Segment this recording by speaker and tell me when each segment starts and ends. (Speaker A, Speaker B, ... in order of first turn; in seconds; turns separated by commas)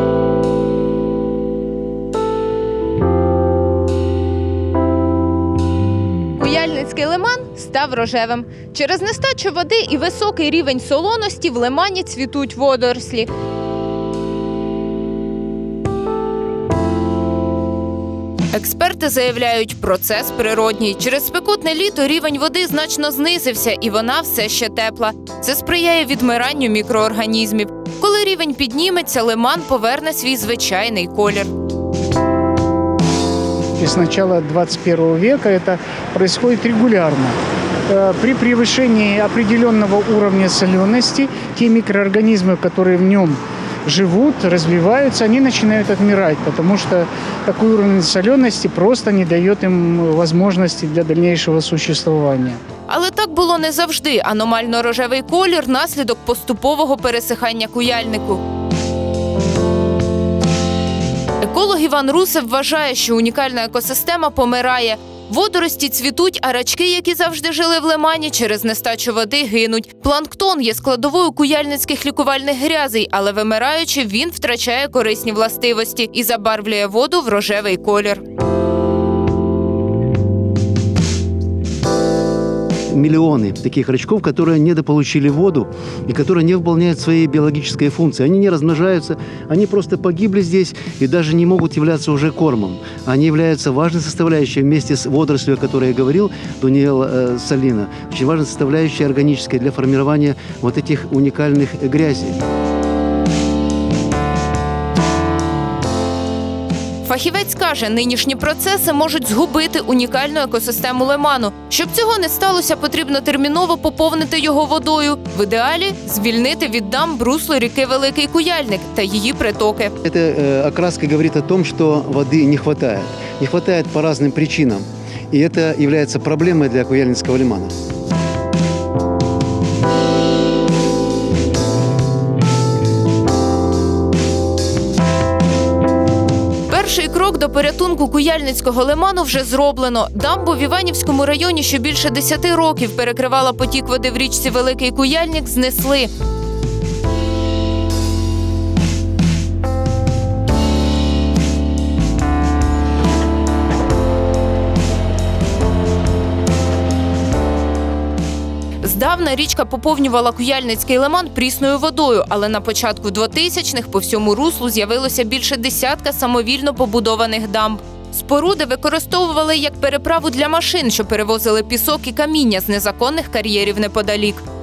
Speaker A: 6.4-13.3, Speaker A: 18.5-31.5, Speaker B: 33.8-37.3, Speaker B: 37.9-52.6, Speaker A: 52.9-58.4, Speaker A: 61.4-78.2, Speaker C: 82.9-102.4, Speaker A: 107.0-119.9, Speaker C: 120.0-127.7, Speaker A: 136.7-146.1, Speaker A: 158.8-174.4